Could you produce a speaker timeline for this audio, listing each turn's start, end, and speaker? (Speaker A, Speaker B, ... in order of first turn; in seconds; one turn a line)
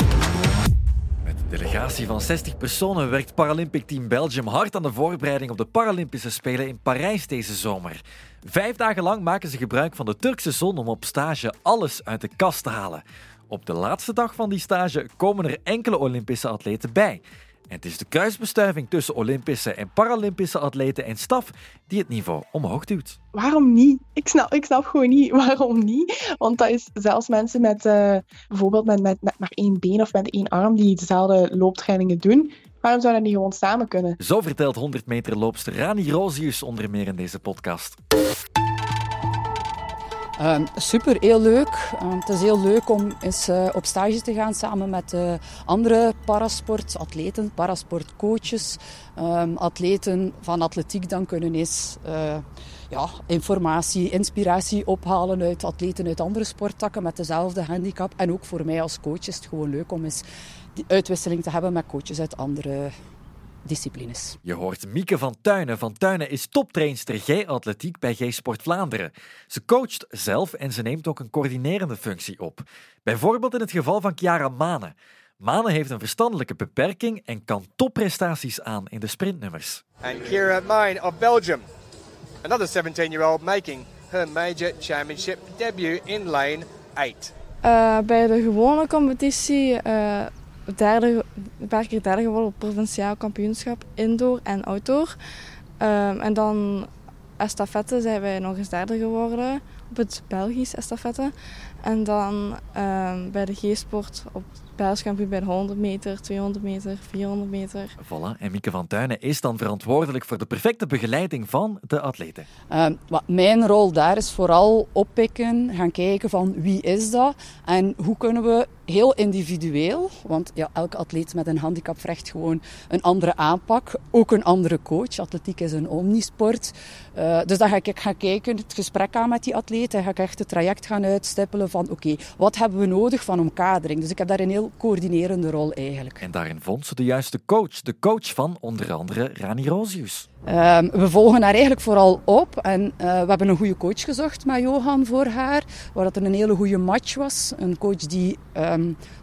Speaker A: 1.2-23.2
Speaker B: 23.3-34.2
Speaker A: 34.2-38.0
Speaker C: 40.4-60.2
Speaker C: 60.8-62.9
Speaker C: 63.6-64.4
Speaker A: 64.4-79.8
Speaker D: 80.0-81.6
Speaker D: 82.4-87.3
Speaker E: 87.6-95.2
Speaker E: 95.8-107.9
Speaker A: 108.0-112.5
Speaker C: 112.7-136.2
Speaker A: 136.2-140.2
Speaker C: 140.4-149.0